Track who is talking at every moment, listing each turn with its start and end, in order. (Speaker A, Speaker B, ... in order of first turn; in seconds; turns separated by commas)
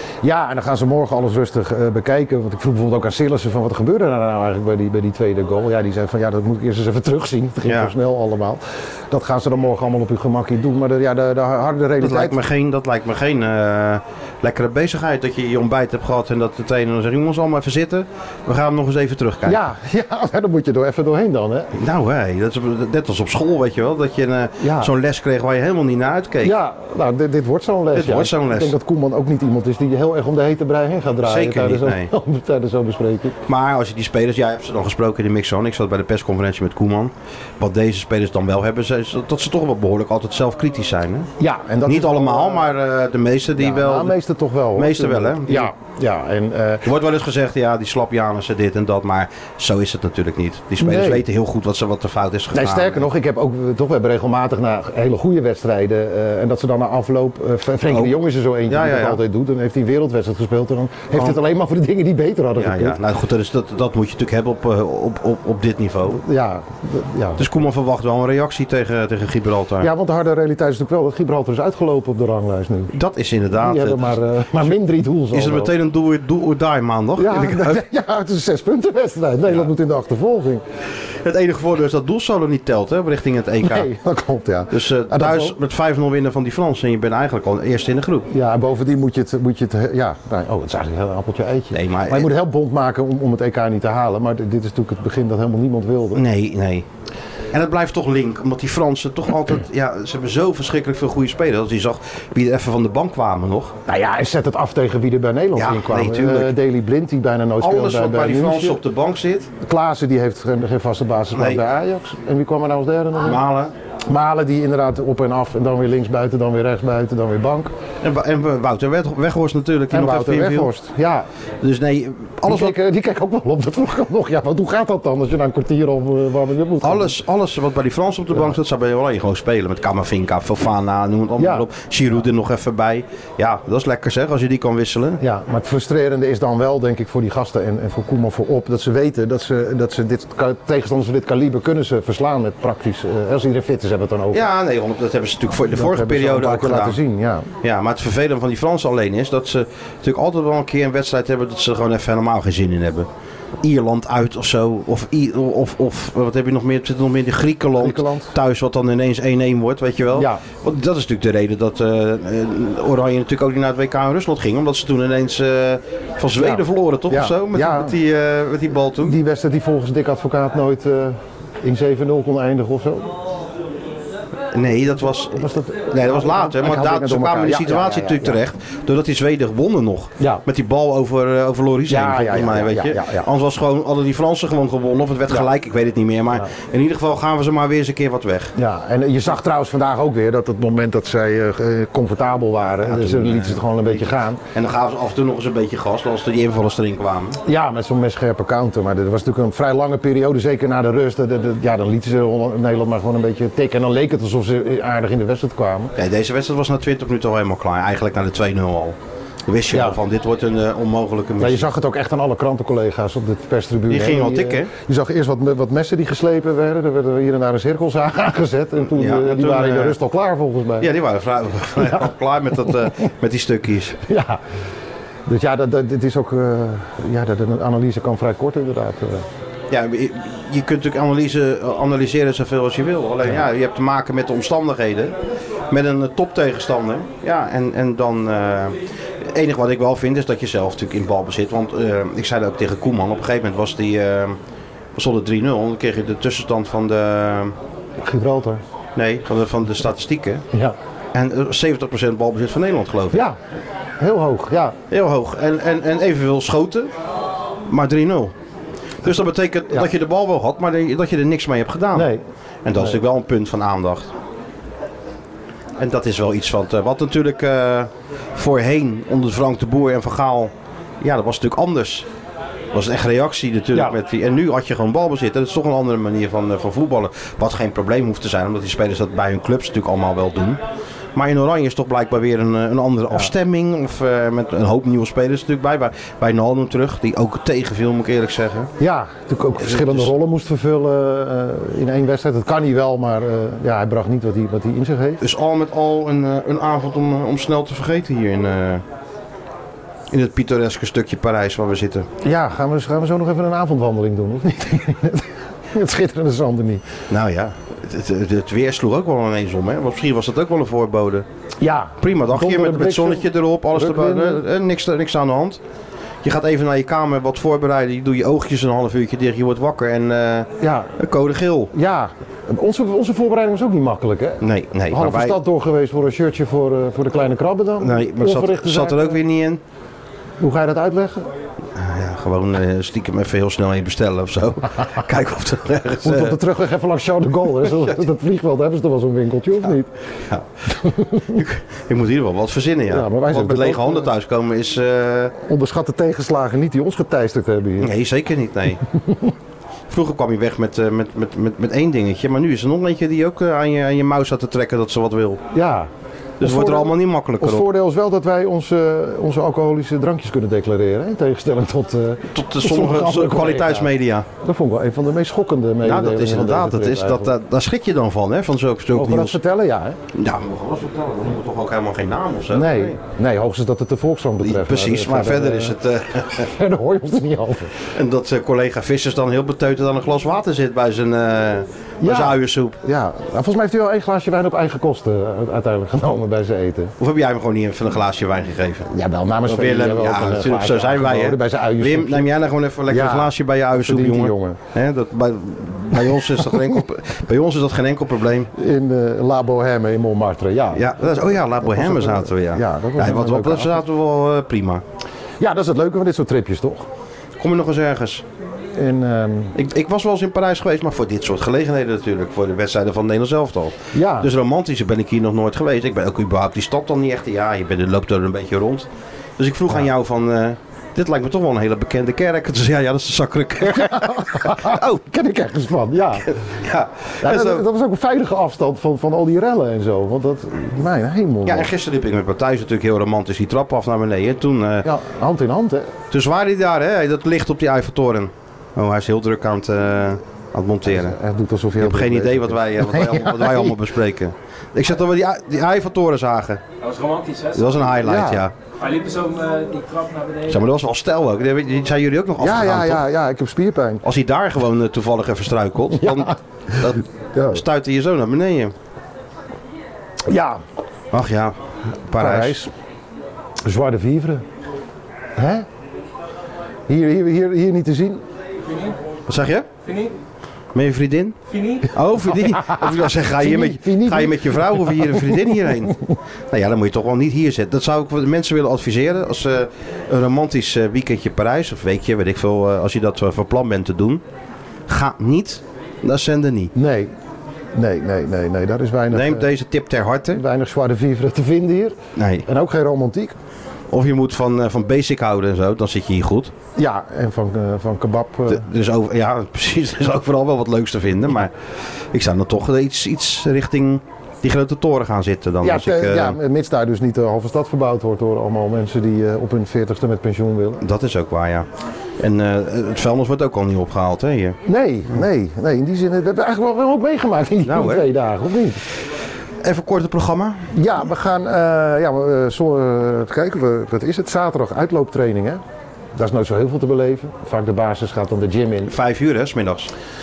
Speaker A: 0.2-12.4, Speaker B: 7.6-7.9, Speaker B: 12.0-19.6, Speaker A: 19.4-21.7, Speaker B: 21.7-26.6, Speaker A: 24.6-24.9, Speaker A: 26.4-33.4, Speaker B: 27.9-28.8, Speaker B: 31.2-32.1, Speaker B: 33.5-41.3, Speaker A: 41.4-42.7, Speaker B: 41.8-44.2, Speaker A: 43.5-46.9, Speaker B: 44.7-45.7, Speaker B: 46.8-53.1, Speaker A: 50.8-51.2, Speaker A: 52.5-63.0, Speaker B: 57.9-59.2, Speaker B: 62.5-66.2, Speaker A: 66.1-67.5, Speaker B: 67.4-69.9, Speaker A: 69.8-72.9, Speaker B: 72.9-74.7, Speaker A: 73.5-75.7, Speaker B: 75.3-77.8, Speaker A: 77.2-80.6, Speaker B: 81.0-83.9, Speaker A: 83.6-85.5, Speaker B: 84.7-88.3, Speaker A: 88.3-96.2, Speaker B: 91.7-92.3, Speaker B: 96.1-96.9, Speaker B: 97.5-103.8, Speaker A: 103.9-108.8, Speaker B: 105.5-106.5, Speaker B: 107.6-109.5, Speaker A: 109.6-113.4, Speaker B: 111.3-111.6, Speaker B: 113.2-113.7, Speaker A: 114.1-117.7, Speaker B: 118.0-120.7, Speaker A: 119.9-121.3, Speaker B: 121.6-122.8, Speaker A: 122.4-127.2, Speaker B: 126.8-135.2, Speaker A: 131.4-131.7, Speaker A: 135.2-144.4, Speaker B: 144.3-147.0, Speaker A: 145.7-147.5, Speaker B: 147.6-153.1, Speaker B: 153.6-169.2, Speaker A: 157.8-158.3, Speaker A: 160.1-160.4, Speaker A: 166.4-168.0, Speaker A: 169.0-173.1, Speaker B: 174.5-188.5, Speaker A: 175.3-178.4, Speaker A: 180.2-180.4, Speaker A: 181.9-183.3, Speaker A: 188.6-194.4, Speaker B: 192.8-197.4, Speaker A: 197.4-205.9, Speaker B: 205.9-211.7, Speaker A: 209.7-210.0, Speaker A: 211.4-220.9, Speaker B: 213.9-214.7, Speaker B: 218.8-220.0, Speaker B: 220.8-224.0, Speaker A: 221.8-222.0, Speaker A: 224.0-224.4, Speaker A: 225.2-229.2, Speaker B: 229.7-244.4, Speaker B: 244.9-247.6, Speaker A: 248.0-248.6, Speaker B: 248.9-250.4, Speaker B: 251.1-253.2, Speaker A: 254.0-254.8, Speaker B: 254.9-256.9, Speaker B: 257.6-258.3, Speaker B: 259.0-262.1, Speaker A: 261.9-262.2, Speaker B: 262.6-264.1, Speaker B: 265.8-272.1, Speaker B: 272.7-280.6, Speaker B: 281.1-288.7, Speaker A: 288.8-295.2, Speaker B: 289.6-290.1, Speaker B: 295.2-298.8, Speaker B: 300.1-302.1, Speaker A: 302.2-306.9, Speaker B: 307.1-311.2, Speaker A: 311.6-314.4, Speaker B: 312.0-315.6, Speaker B: 316.2-321.7, Speaker A: 320.6-320.9, Speaker A: 321.7-329.2, Speaker B: 324.4-325.4, Speaker B: 327.8-329.6, Speaker A: 330.4-331.3, Speaker B: 331.7-336.4, Speaker A: 336.0-339.9, Speaker B: 337.6-337.9, Speaker A: 340.7-341.4, Speaker B: 341.1-345.3, Speaker A: 342.9-344.1, Speaker A: 345.4-347.9, Speaker B: 347.8-348.8, Speaker A: 348.9-349.3, Speaker B: 349.9-355.4, Speaker A: 355.5-355.9, Speaker B: 356.4-357.7, Speaker A: 356.4-367.3, Speaker B: 362.3-364.3, Speaker B: 365.8-369.4, Speaker A: 368.9-370.0, Speaker B: 370.1-373.0, Speaker A: 372.5-375.8, Speaker B: 374.4-376.5, Speaker A: 376.4-377.9, Speaker B: 377.9-382.8, Speaker A: 382.0-386.9, Speaker B: 387.0-388.9, Speaker A: 388.9-392.3, Speaker B: 389.4-398.5, Speaker A: 392.9-394.6, Speaker A: 396.0-396.7, Speaker A: 398.5-403.8, Speaker B: 400.7-404.8, Speaker A: 405.4-406.9, Speaker B: 407.4-408.2, Speaker A: 408.7-409.6, Speaker B: 409.5-425.0, Speaker A: 413.9-414.3, Speaker A: 423.7-426.4, Speaker B: 426.4-427.6, Speaker A: 427.2-431.7, Speaker B: 431.4-434.9, Speaker A: 434.8-435.9, Speaker B: 436.1-441.2, Speaker A: 440.9-443.8, Speaker B: 441.8-446.6, Speaker C: 446.8-448.0, Speaker B: 447.5-448.5, Speaker A: 448.0-448.4, Speaker C: 448.7-450.6, Speaker B: 450.5-453.0, Speaker A: 452.4-454.0, Speaker B: 454.0-458.7, Speaker A: 455.9-456.4, Speaker A: 457.3-457.6, Speaker A: 460.3-460.6, Speaker B: 461.1-462.6, Speaker A: 462.1-462.7, Speaker A: 463.6-464.4, Speaker A: 465.4-465.6, Speaker A: 466.9-468.2, Speaker C: 468.6-469.0, Speaker B: 469.3-469.7, Speaker C: 469.8-470.1, Speaker B: 470.7-484.2, Speaker C: 471.5-471.9, Speaker A: 472.6-475.4, Speaker B: 484.9-486.7, Speaker A: 486.7-487.1, Speaker A: 487.7-489.5, Speaker B: 489.1-490.4, Speaker A: 490.3-493.3, Speaker B: 492.1-492.4, Speaker B: 493.9-496.5, Speaker A: 496.8-498.7, Speaker B: 498.5-501.6, Speaker B: 502.1-506.4, Speaker A: 505.6-510.8, Speaker B: 510.8-511.7, Speaker B: 512.2-514.6, Speaker A: 514.6-518.8, Speaker B: 517.6-518.1, Speaker B: 519.6-520.7, Speaker A: 520.7-525.6, Speaker A: 526.1-528.9, Speaker B: 528.9-529.9